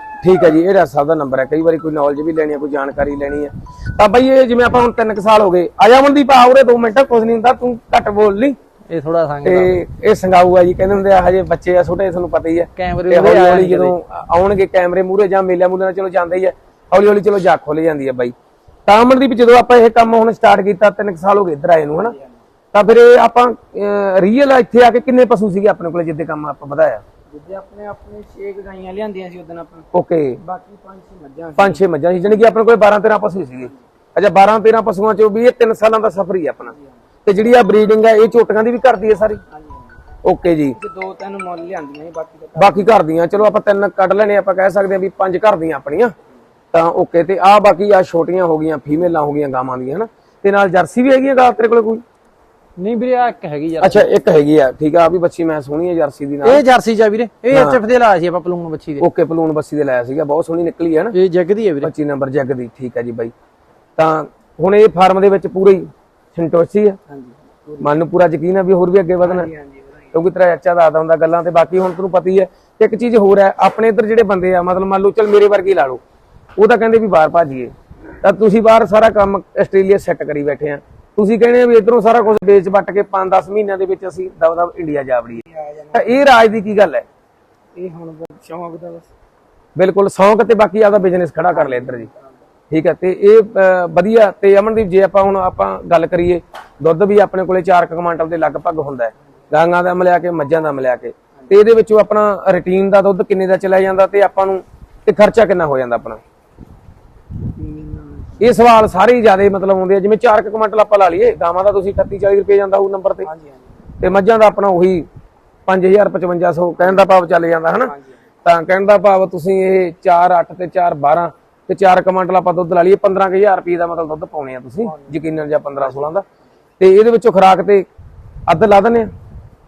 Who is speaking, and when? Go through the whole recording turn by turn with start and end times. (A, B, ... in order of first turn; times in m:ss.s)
0:00.2-0:08.6 A
0:08.9-0:09.8 B
0:09.4-0:18.3 A
0:12.8-0:13.9 B
0:18.8-0:22.1 A
0:22.0-0:22.4 C
0:22.7-0:27.0 A
0:27.3-0:29.9 C
0:29.9-0:30.4 A
0:30.4-0:31.8 C
0:31.6-0:36.7 A
0:37.2-0:39.4 A
0:39.5-0:40.0 C
0:40.2-0:40.8 A
0:40.8-0:43.0 C
0:42.6-0:46.1 A
0:46.7-0:52.0 A
0:52.8-0:54.1 B
0:53.8-0:56.6 A
0:56.4-0:59.0 B
0:57.5-0:57.8 A
0:59.0-1:01.1 A
1:01.1-1:01.9 B
1:01.8-1:03.3 A
1:04.0-1:07.0 A
1:07.1-1:07.9 C
1:07.8-1:09.5 A
1:09.2-1:10.2 C
1:10.1-1:16.0 A
1:16.6-1:17.7 A
1:18.2-1:25.4 A
1:25.4-1:26.2 C
1:25.9-1:27.0 A
1:27.7-1:29.1 C
1:29.8-1:32.1 A
1:31.5-1:32.4 C
1:32.7-1:46.2 A
1:47.5-1:48.5 C
1:48.4-1:53.3 A
1:53.2-1:53.8 C
1:54.0-1:55.1 A
1:55.7-1:57.9 A
1:56.8-1:57.1 C
1:57.8-1:58.2 C
1:58.4-2:06.2 A
2:04.8-2:06.3 C
2:06.8-2:07.8 A
2:08.5-2:09.1 A